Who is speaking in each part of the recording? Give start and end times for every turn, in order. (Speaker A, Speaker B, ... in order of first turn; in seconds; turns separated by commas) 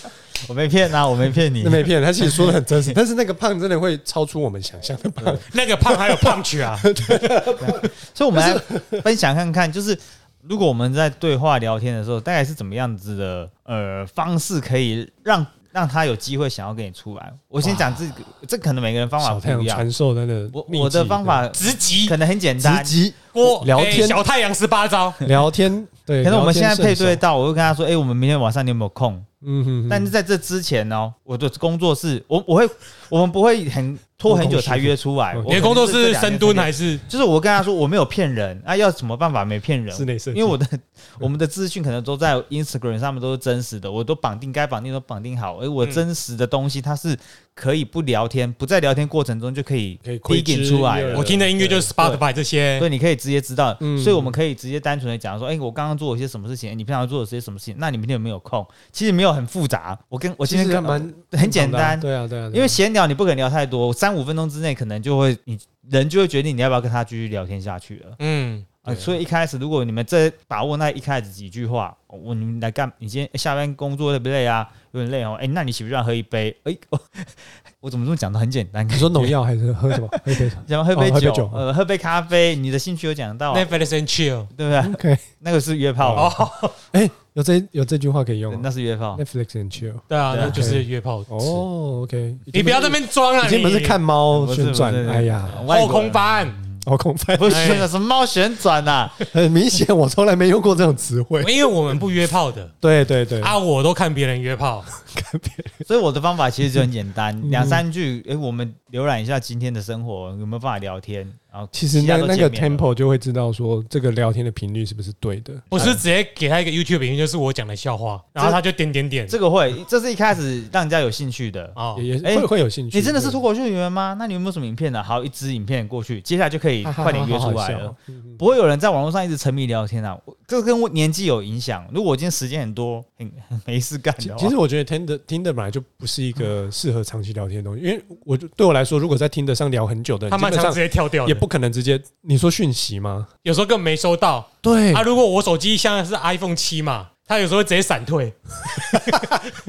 Speaker A: 0.4-2.9, Speaker B: 1.6-9.0, Speaker C: 5.4-6.9, Speaker A: 7.3-19.9, Speaker B: 17.6-17.9, Speaker B: 19.2-21.4, Speaker A: 20.5-23.0, Speaker C: 21.5-22.1, Speaker B: 22.6-24.2, Speaker C: 23.3-25.2, Speaker B: 25.2-27.2, Speaker A: 26.2-29.2, Speaker B: 29.4-30.1, Speaker A: 29.9-51.3, Speaker B: 34.2-35.7, Speaker C: 35.5-37.0, Speaker B: 39.9-40.6, Speaker B: 50.0-51.9, Speaker C: 51.1-52.9, Speaker A: 52.8-68.2, Speaker B: 53.8-54.4, Speaker B: 60.4-62.8, Speaker C: 68.2-68.7, Speaker A: 68.8-79.3, Speaker B: 68.9-69.1, Speaker B: 78.9-81.6, Speaker A: 79.9-83.9, Speaker C: 83.5-84.5, Speaker A: 84.5-86.3, Speaker B: 84.8-85.2, Speaker B: 86.0-95.6, Speaker C: 86.1-86.8, Speaker A: 88.5-89.2, Speaker C: 90.1-91.6, Speaker A: 90.3-90.6, Speaker C: 92.5-94.0, Speaker A: 94.3-96.8, Speaker C: 95.7-96.6, Speaker B: 96.8-97.9, Speaker A: 97.3-99.2, Speaker C: 97.5-97.9, Speaker B: 99.2-101.5, Speaker C: 101.4-102.7, Speaker B: 102.8-103.6, Speaker C: 103.4-104.9, Speaker B: 105.0-105.8, Speaker A: 105.8-112.9, Speaker B: 107.4-107.8, Speaker B: 111.7-115.9, Speaker A: 115.7-116.0, Speaker C: 115.7-119.3, Speaker A: 119.3-134.5, Speaker C: 121.8-122.0, Speaker B: 121.9-123.4, Speaker B: 126.8-128.4, Speaker B: 134.2-143.3, Speaker C: 140.3-141.4, Speaker C: 143.4-149.4, Speaker B: 144.6-145.1, Speaker B: 148.9-149.3